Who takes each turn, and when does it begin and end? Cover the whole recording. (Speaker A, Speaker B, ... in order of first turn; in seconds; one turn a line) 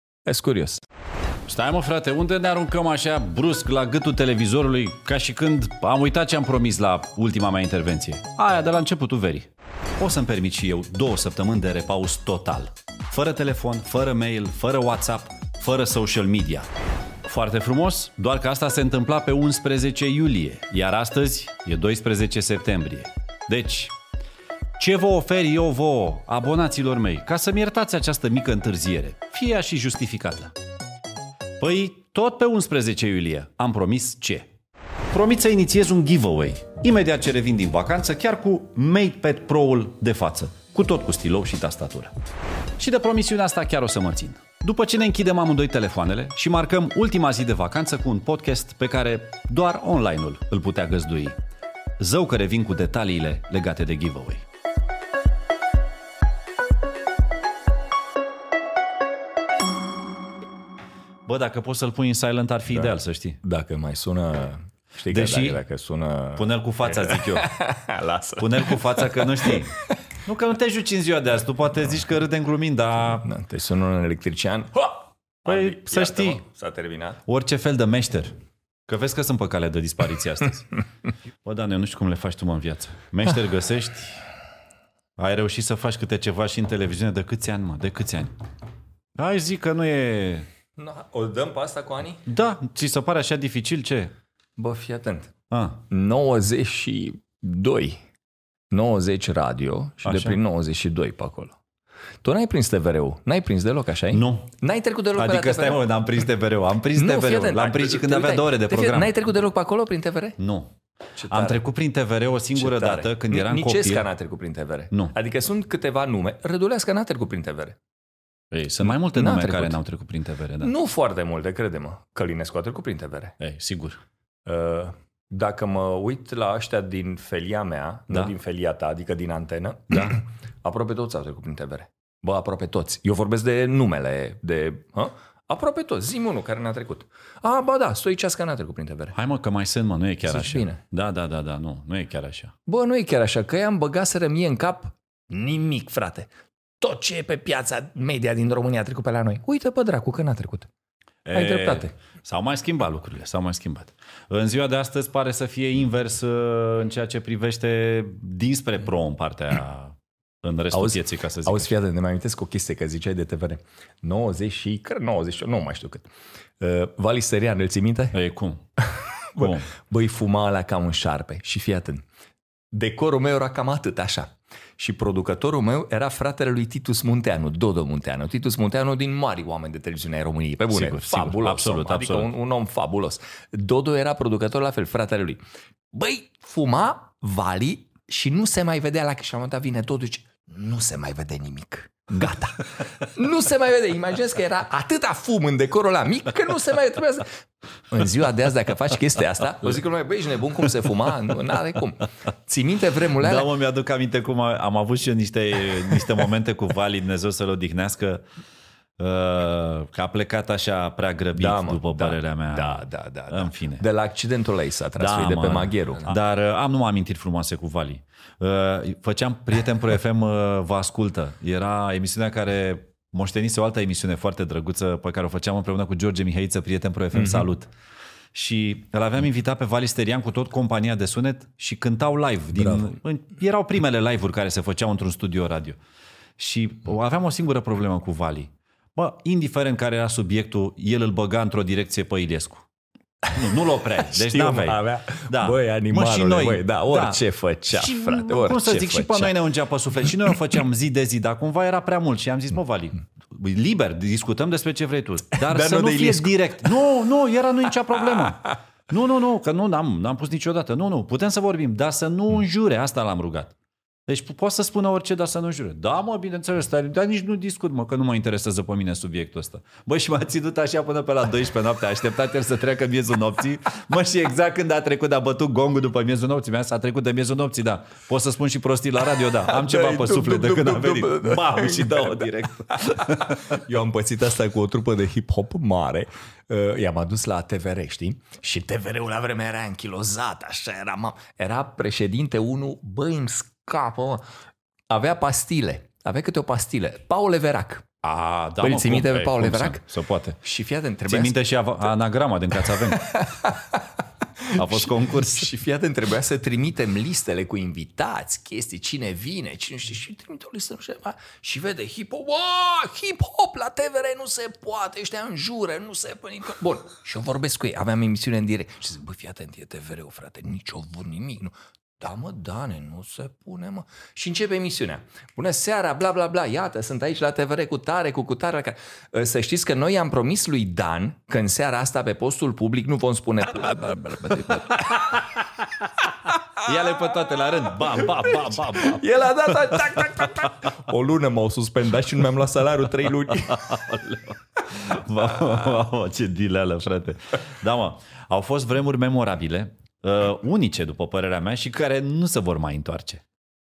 Speaker A: 0.2-0.8
Speaker B: 1.4-16.7
Speaker B: 17.2-23.9
Speaker B: 24.8-30.5
Speaker B: 31.6-34.5
Speaker B: 35.1-42.1
Speaker B: 42.8-51.4
Speaker B: 52.0-54.4
Speaker B: 61.2-63.4
Speaker A: 62.7-69.9
Speaker B: 65.1-65.6
Speaker B: 66.4-67.5
Speaker B: 68.4-73.2
Speaker A: 73.2-77.2
Speaker B: 75.5-76.4
Speaker B: 77.2-78.3
Speaker B: 78.9-80.8
Speaker B: 81.4-84.2
Speaker B: 85.2-88.3
Speaker B: 89.2-90.5
Speaker A: 90.8-92.2
Speaker B: 92.2-94.1
Speaker A: 94.6-95.3
Speaker B: 95.5-95.8
Speaker A: 95.9-98.0
Speaker A: 98.7-101.6
Speaker B: 100.0-100.4
Speaker A: 102.2-105.9
Speaker B: 104.1-104.5
Speaker B: 105.1-109.1
Speaker A: 106.9-110.4
Speaker B: 110.4-110.8
Speaker A: 111.2-111.6
Speaker B: 111.3-114.1
Speaker A: 112.5-117.8
Speaker B: 118.5-120.7
Speaker A: 118.8-119.8
Speaker A: 120.6-123.4
Speaker B: 123.4-124.0
Speaker A: 124.5-139.1
Speaker B: 129.9-130.2
Speaker B: 139.1-142.5
Speaker A: 140.2-140.8
Speaker A: 142.7-150.7
Speaker B: 151.2-161.7
Speaker A: 151.3-151.9
Speaker A: 160.7-166.1
Speaker A: 166.6-168.2
Speaker B: 168.1-168.6
Speaker A: 168.8-172.0
Speaker B: 169.4-169.7
Speaker A: 172.7-185.4
Speaker B: 180.7-182.3
Speaker A: 185.9-197.3
Speaker A: 197.9-203.5
Speaker B: 203.2-208.2
Speaker B: 209.0-213.8
Speaker A: 211.3-216.2
Speaker B: 215.0-227.7
Speaker A: 227.1-227.5
Speaker B: 228.3-235.8
Speaker A: 232.6-232.9
Speaker B: 236.4-242.7
Speaker B: 243.3-263.5
Speaker A: 244.0-249.3
Speaker A: 255.3-256.3
Speaker B: 264.1-283.6
Speaker A: 279.5-294.2
Speaker A: 294.9-297.9
Speaker B: 298.0-300.4
Speaker A: 298.6-299.8
Speaker A: 300.4-301.3
Speaker B: 301.1-303.2
Speaker A: 302.9-303.8
Speaker A: 304.4-335.1
Speaker B: 304.5-305.5
Speaker B: 334.5-335.9
Speaker B: 336.6-339.0
Speaker A: 338.7-343.8
Speaker B: 339.6-340.4
Speaker B: 343.4-353.2